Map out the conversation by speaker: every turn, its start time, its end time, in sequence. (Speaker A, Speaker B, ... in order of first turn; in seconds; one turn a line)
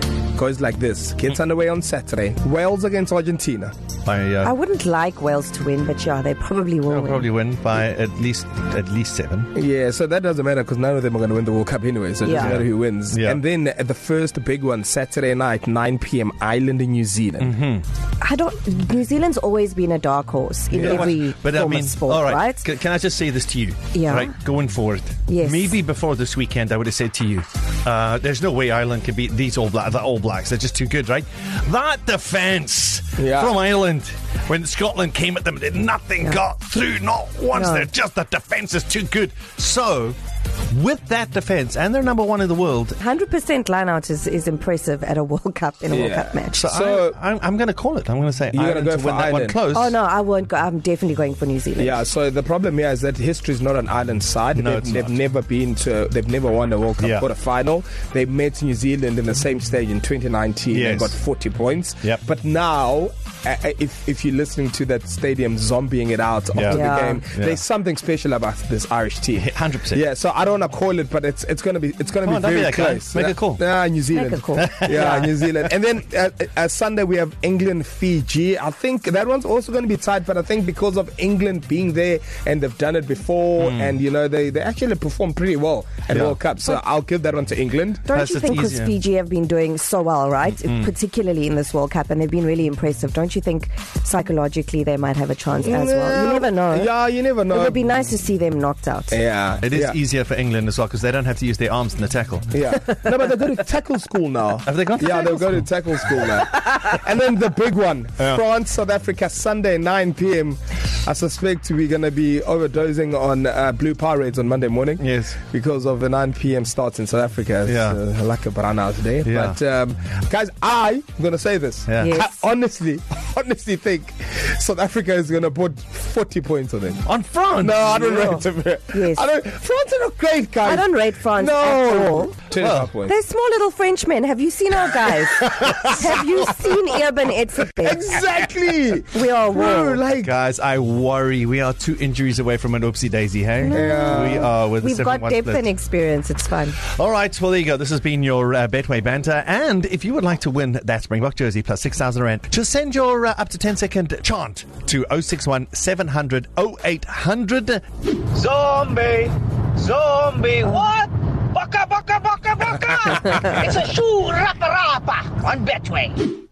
Speaker A: 0.3-3.7
Speaker B: 4.1-4.5
Speaker C: 4.4-7.2
Speaker B: 6.9-9.5
Speaker A: 9.6-17.5
Speaker B: 12.3-13.4
Speaker B: 17.4-17.8
Speaker C: 18.2-22.6
Speaker B: 20.7-40.2
Speaker A: 20.7-21.1
Speaker C: 23.9-24.2
Speaker C: 25.3-25.6
Speaker A: 33.2-33.6
Speaker C: 37.5-37.9
Speaker B: 40.7-43.0
Speaker C: 43.0-46.6
Speaker A: 45.9-47.2
Speaker B: 46.5-50.0
Speaker A: 48.5-49.6
Speaker C: 49.7-51.9
Speaker A: 51.8-88.1
Speaker B: 54.5-55.2
Speaker B: 57.0-57.3
Speaker B: 60.7-61.2
Speaker B: 66.5-67.6
Speaker C: 66.8-67.1
Speaker B: 69.4-70.0
Speaker B: 72.2-73.6
Speaker C: 74.1-75.2
Speaker B: 74.5-75.5
Speaker B: 83.6-84.0
Speaker B: 86.1-86.4
Speaker C: 88.1-96.8
Speaker B: 88.1-89.0
Speaker B: 90.4-90.9
Speaker A: 95.6-97.8
Speaker C: 97.5-99.2
Speaker A: 99.1-100.0
Speaker B: 99.6-102.5
Speaker A: 102.5-127.1
Speaker B: 104.7-106.2
Speaker B: 115.0-115.4
Speaker B: 117.7-118.0
Speaker B: 119.2-119.6
Speaker B: 121.9-122.2
Speaker B: 127.0-128.4
Speaker A: 127.6-133.2
Speaker C: 128.9-129.2
Speaker C: 130.7-132.3
Speaker B: 132.6-132.9
Speaker C: 133.1-135.4
Speaker A: 134.9-136.6
Speaker C: 135.9-137.9
Speaker A: 137.7-140.3
Speaker C: 139.1-139.6
Speaker B: 139.5-145.7
Speaker C: 143.6-144.1
Speaker A: 143.7-144.5
Speaker C: 144.8-146.8
Speaker B: 146.8-157.8
Speaker D: 158.3-166.2